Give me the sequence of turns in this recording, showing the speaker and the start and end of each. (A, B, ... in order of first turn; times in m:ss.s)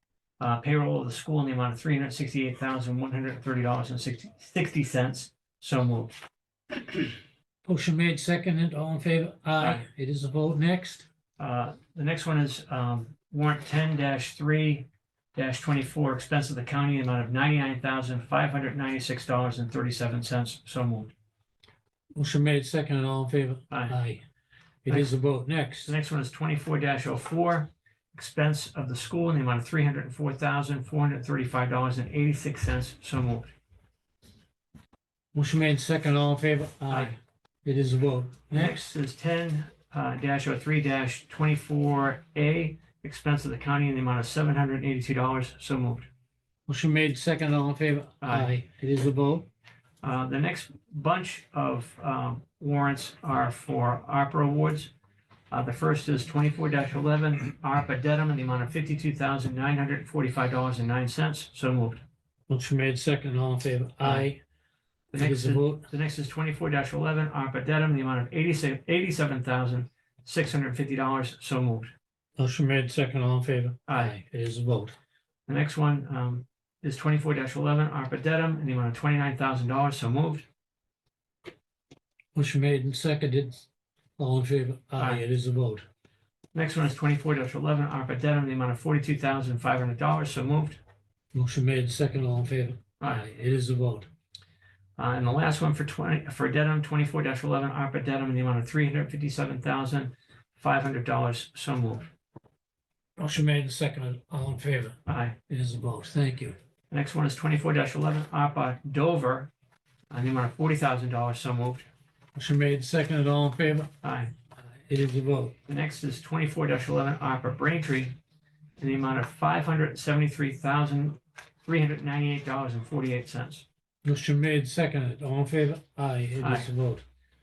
0:00.4-0:06.2 A
0:07.6-0:11.1 B
0:09.6-0:09.9 A
0:11.4-0:21.1 A
0:22.2-0:24.2 B
0:23.7-0:24.0 A
0:24.8-0:25.9 B
0:25.8-0:33.5 A
0:35.3-0:38.8 B
0:36.9-0:37.2 A
0:38.5-0:46.1 A
0:46.7-0:49.5 B
0:48.2-0:48.5 A
0:50.0-0:54.9 A
0:55.5-1:02.0 A
1:02.5-1:04.4 B
1:04.0-1:04.3 A
1:05.1-1:11.9 A
1:05.2-1:05.9 B
1:12.4-1:15.0 B
1:13.9-1:14.2 A
1:15.5-1:20.5 A
1:22.3-1:23.6 B
1:24.2-1:25.9 B
1:25.0-1:25.2 A
1:26.5-1:30.8 A
1:31.3-1:34.1 B
1:33.0-1:33.2 A
1:35.0-1:42.1 A
1:43.2-1:46.6 B
1:45.1-1:45.4 A
1:46.9-1:49.5 A
1:50.1-1:51.9 A
1:52.4-1:53.9 B
1:54.0-1:54.3 A
1:54.9-1:55.6 B
1:55.7-1:58.2 A
1:58.8-2:03.6 A
2:04.0-2:07.0 B
2:06.4-2:06.7 A